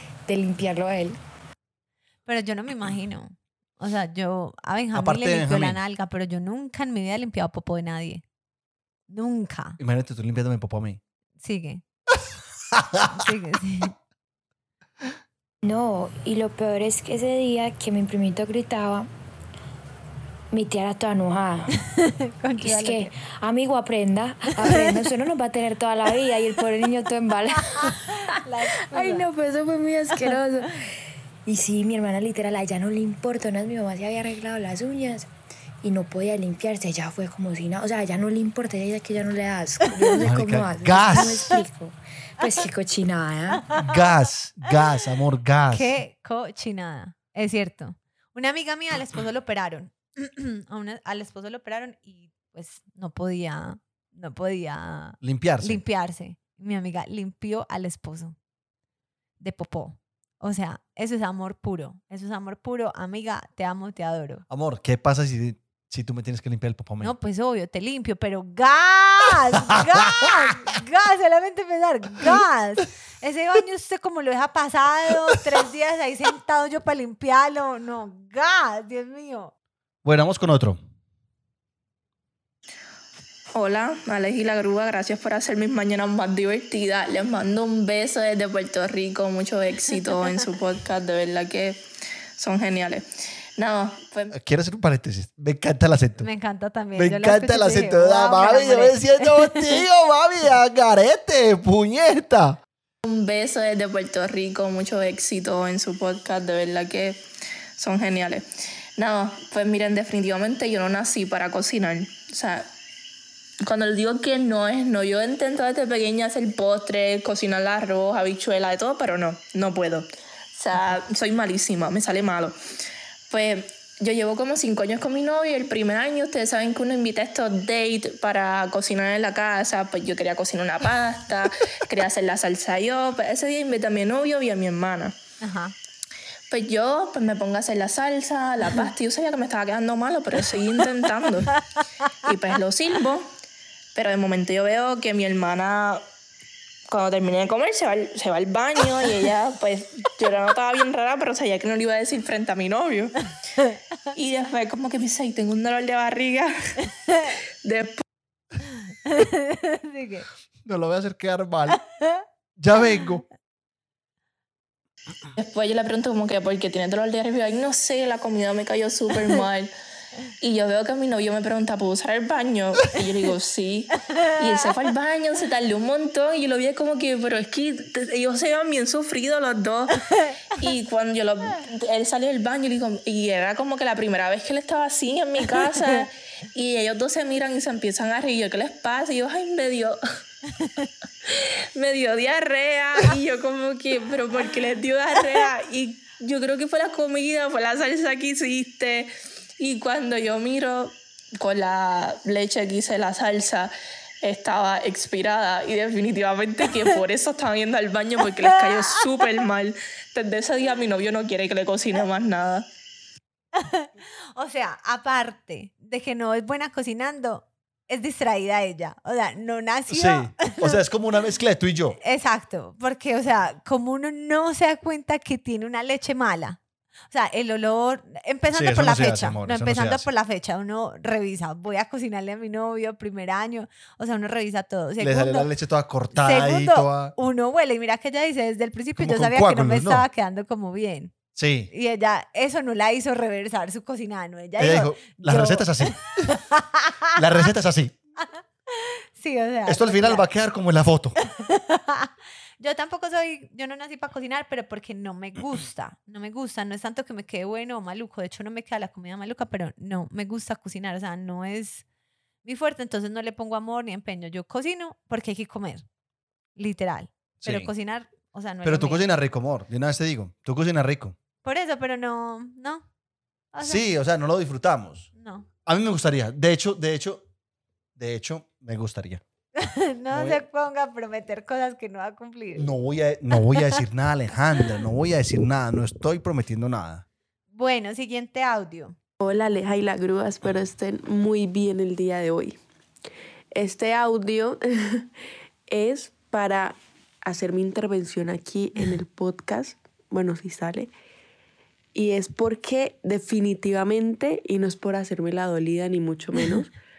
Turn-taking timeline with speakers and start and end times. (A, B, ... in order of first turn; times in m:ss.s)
0:00.3-0:01.2 A
0:02.2-0:08.2 B
0:04.9-0:05.8 C
0:09.1-0:09.8 B
0:09.8-0:11.0 C
0:11.4-0:11.8 B
0:12.7-0:13.1 C
0:13.1-0:13.9 B
0:15.6-0:19.1 A
0:20.5-0:21.8 A
0:22.0-0:23.1 B
0:22.6-0:30.8 A
0:24.6-0:25.0 B
0:27.7-0:29.3 B
0:31.4-0:35.3 A
0:35.8-0:43.7 A
0:40.0-0:40.2 B
0:40.2-0:41.4 C
0:43.8-0:45.9 C
0:45.7-0:58.4 B
0:55.2-0:55.8 C
0:59.4-1:04.4 B
1:04.5-1:07.1 C
1:07.0-1:19.5 B
1:09.6-1:10.3 C
1:20.0-1:20.8 C
1:23.5-1:31.8 D
1:32.4-1:33.0 D
1:33.6-1:34.3 D
1:34.3-1:36.3 C
1:36.2-1:39.8 B
1:36.9-1:42.6 C
1:43.0-1:47.2 D
1:47.8-1:48.4 D
1:49.0-1:52.7 D
1:53.6-2:02.5 D
2:03.3-2:15.1 D
2:15.4-2:15.7 B
2:16.5-2:21.6 D
2:22.2-2:23.3 D
2:23.9-2:26.0 D
2:26.9-2:33.3 D
2:34.1-2:36.8 D
2:37.6-2:38.0 D
2:39.0-2:40.3 B
2:40.6-2:41.8 C
2:41.7-2:42.2 B
2:42.6-2:43.2 C
2:45.4-2:49.7 D
2:50.4-3:00.0 D
3:00.5-3:10.0 D
3:10.6-3:10.8 B
3:11.3-3:32.6 D
3:33.5-3:40.8 B
3:39.9-3:42.0 C
3:42.0-3:55.5 B
3:48.5-3:50.1 C
3:55.0-3:57.1 C
3:56.1-4:01.2 B
3:59.0-4:00.0 C
4:01.3-4:01.7 C
4:01.7-4:07.1 B
4:04.6-4:06.4 C
4:07.1-4:07.9 C
4:08.2-4:10.3 B
4:09.7-4:11.2 C
4:11.2-4:21.8 B
4:22.4-4:25.8 B
4:26.6-4:29.0 B
4:27.4-4:27.7 C
4:28.6-4:31.2 C
4:31.4-4:32.8 B
4:33.5-4:33.8 B
4:33.6-4:35.1 C
4:35.1-4:35.5 B
4:35.6-4:37.2 C
4:38.0-4:39.2 C
4:39.6-4:42.7 B
4:40.1-4:40.4 C
4:42.5-4:47.0 C
4:43.3-4:43.8 B
4:47.5-4:49.0 B
4:49.2-4:52.6 E
4:53.5-4:55.1 E
4:55.7-5:00.9 E
5:01.9-5:06.7 E